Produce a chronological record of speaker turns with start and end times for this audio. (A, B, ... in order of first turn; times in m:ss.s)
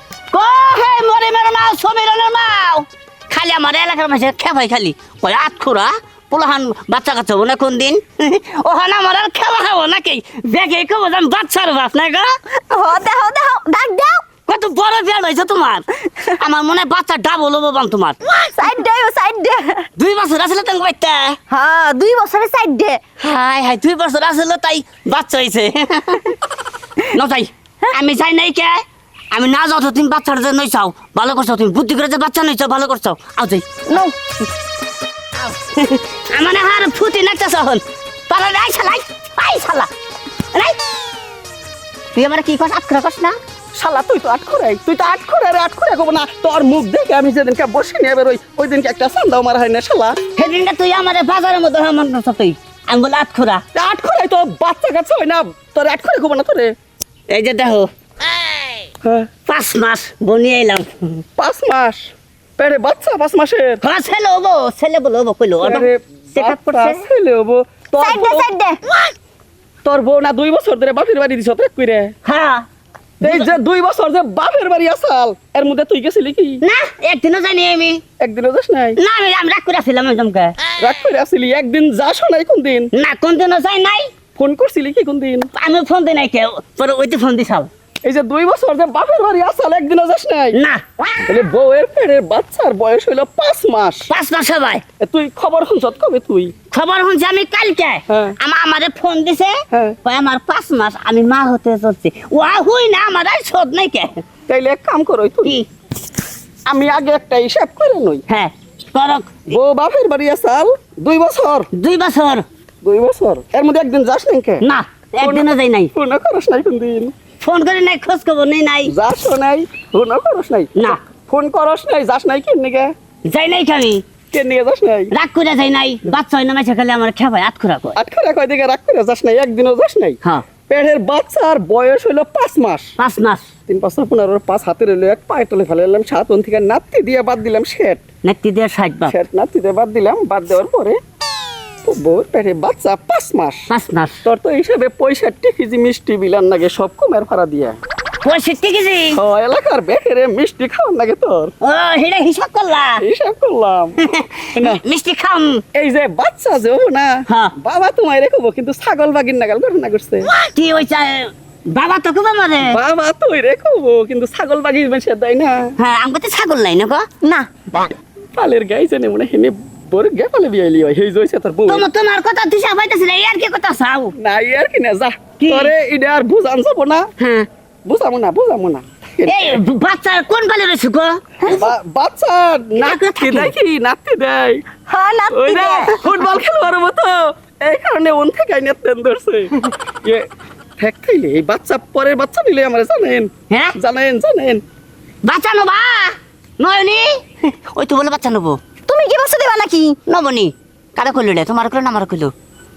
0:00.3-0:12.4 A
0:12.7-0:14.2 B
0:14.5-0:18.2 A
0:18.3-0:19.9 B
0:20.0-0:21.4 A
0:21.5-0:23.0 B
0:23.2-0:26.4 A
0:27.0-0:34.0 A
0:35.4-0:39.9 A
0:40.5-0:40.8 A
0:42.1-0:43.4 A
0:43.8-0:50.2 C
0:50.4-0:53.6 A
0:53.7-0:56.7 C
0:57.3-0:57.9 A
0:59.0-0:59.3 C
0:59.5-1:01.2 A
1:01.4-1:03.8 C
1:03.8-1:07.0 A
1:05.6-1:08.5 C
1:08.0-1:08.8 B
1:09.8-1:12.1 C
1:12.2-1:12.6 A
1:13.2-1:16.6 C
1:13.2-1:13.5 A
1:16.6-1:18.0 A
1:18.2-1:19.0 C
1:19.0-1:20.6 A
1:20.8-1:22.9 C
1:22.9-1:24.1 A
1:24.4-1:25.5 C
1:25.5-1:27.7 A
1:28.0-1:30.6 C
1:30.5-1:30.8 A
1:31.3-1:34.1 C
1:34.1-1:34.8 A
1:35.0-1:36.5 C
1:36.7-1:44.2 A
1:38.1-1:38.4 C
1:39.7-1:40.0 C
1:44.5-1:45.6 C
1:46.7-1:48.2 C
1:48.3-1:49.5 A
1:49.5-1:51.7 C
1:51.7-1:52.4 A
1:52.8-1:54.6 C
1:54.6-1:55.9 A
1:55.2-1:57.1 C
1:57.4-1:58.9 A
1:58.8-2:02.9 C
2:03.3-2:04.0 A
2:04.3-2:05.1 C
2:05.1-2:08.0 A
2:08.0-2:12.9 C
2:13.0-2:13.5 A
2:13.7-2:18.0 C
2:18.2-2:19.1 A
2:19.1-2:21.0 C
2:21.8-2:23.7 C
2:23.7-2:24.2 A
2:24.2-2:27.8 C
2:28.2-2:29.2 A
2:29.2-2:31.5 C
2:31.6-2:33.0 A
2:33.0-2:34.0 C
2:34.0-2:35.6 A
2:34.5-2:34.8 C
2:35.8-2:40.3 C
2:37.3-2:37.5 A
2:40.2-2:42.8 A
2:42.6-2:45.7 C
2:45.8-2:47.1 A
2:47.2-2:47.5 B
2:48.4-2:51.9 C
2:51.7-2:54.2 A
2:54.2-2:57.1 C
2:55.4-2:55.7 A
2:57.2-2:57.5 A
2:57.9-2:59.6 C
2:59.2-3:01.6 A
3:01.5-3:04.6 C
3:02.8-3:03.5 A
3:04.9-3:06.2 B
3:05.3-3:09.5 C
3:10.8-3:14.6 C
3:13.5-3:13.8 A
3:15.2-3:18.6 A
3:18.9-3:20.0 B
3:20.1-3:22.3 A